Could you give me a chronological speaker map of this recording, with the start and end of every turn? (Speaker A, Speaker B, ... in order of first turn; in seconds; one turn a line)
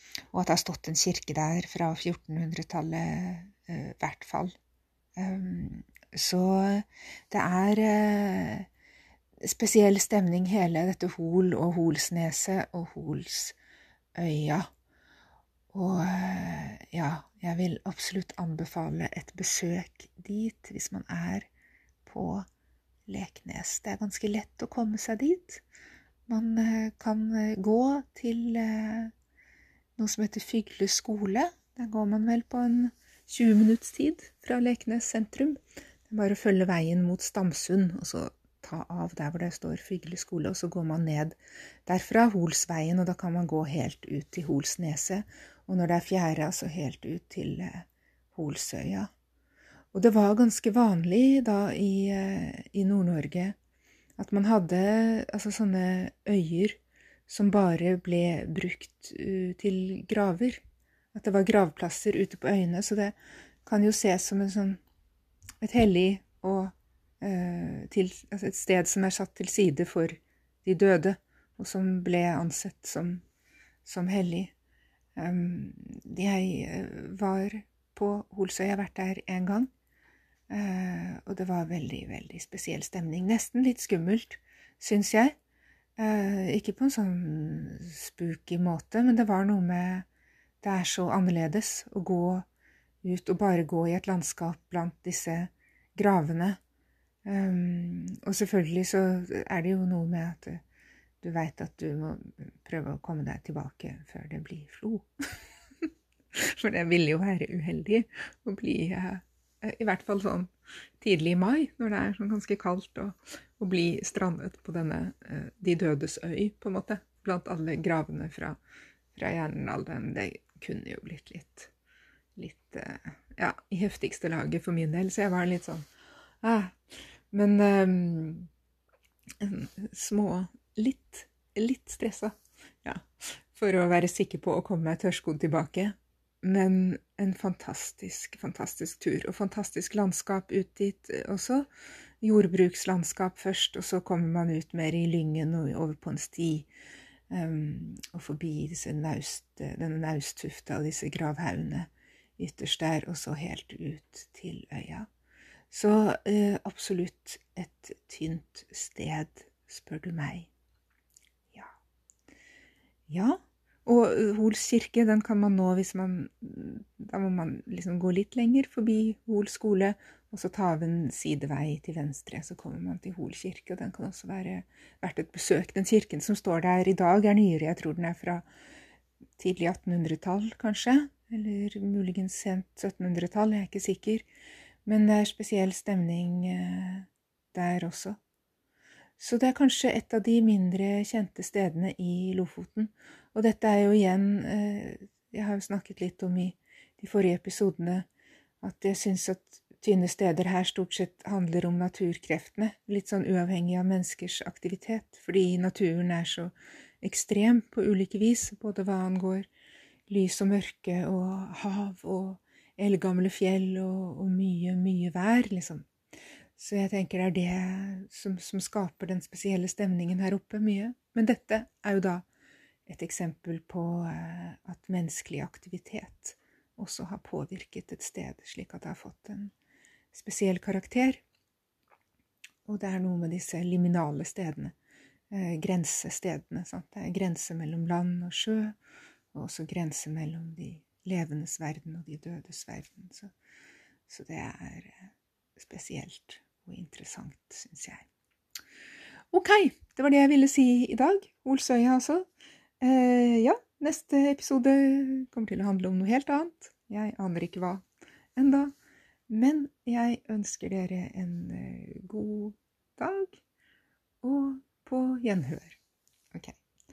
Speaker A: 0.3-4.6
Speaker A: 5.2-8.7
Speaker A: 9.4-13.6
Speaker A: 14.2-14.7
Speaker A: 15.7-21.5
Speaker A: 22.1-22.5
Speaker A: 23.1-25.6
Speaker A: 26.3-29.1
Speaker A: 30.0-49.1
Speaker A: 49.9-53.6
Speaker A: 54.2-64.8
Speaker A: 65.6-73.2
Speaker A: 73.8-74.5
Speaker A: 75.2-79.7
Speaker A: 80.5-85.3
Speaker A: 86.0-90.1
Speaker A: 90.6-92.5
Speaker A: 93.0-96.6
Speaker A: 97.2-100.6
Speaker A: 101.2-105.1
Speaker A: 106.3-118.6
Speaker A: 119.1-121.7
Speaker A: 122.4-125.9
Speaker A: 126.4-126.8
Speaker A: 127.3-128.5
Speaker A: 129.4-141.7
Speaker A: 142.2-146.7
Speaker A: 147.3-155.1
Speaker A: 155.7-160.5
Speaker A: 163.1-178.4
Speaker A: 179.4-184.3
Speaker A: 184.8-188.2
Speaker A: 189.2-198.1
Speaker A: 198.6-209.5
Speaker A: 210.1-215.9
Speaker A: 216.6-222.3
Speaker A: 222.9-229.5
Speaker A: 230.1-231.2
Speaker A: 232.7-234.7
Speaker A: 235.3-238.8
Speaker A: 239.3-243.3
Speaker A: 244.1-248.1
Speaker A: 249.3-252.3
Speaker A: 252.8-257.9
Speaker A: 258.4-258.7
Speaker A: 259.3-263.4
Speaker A: 264.2-265.8
Speaker A: 266.3-266.6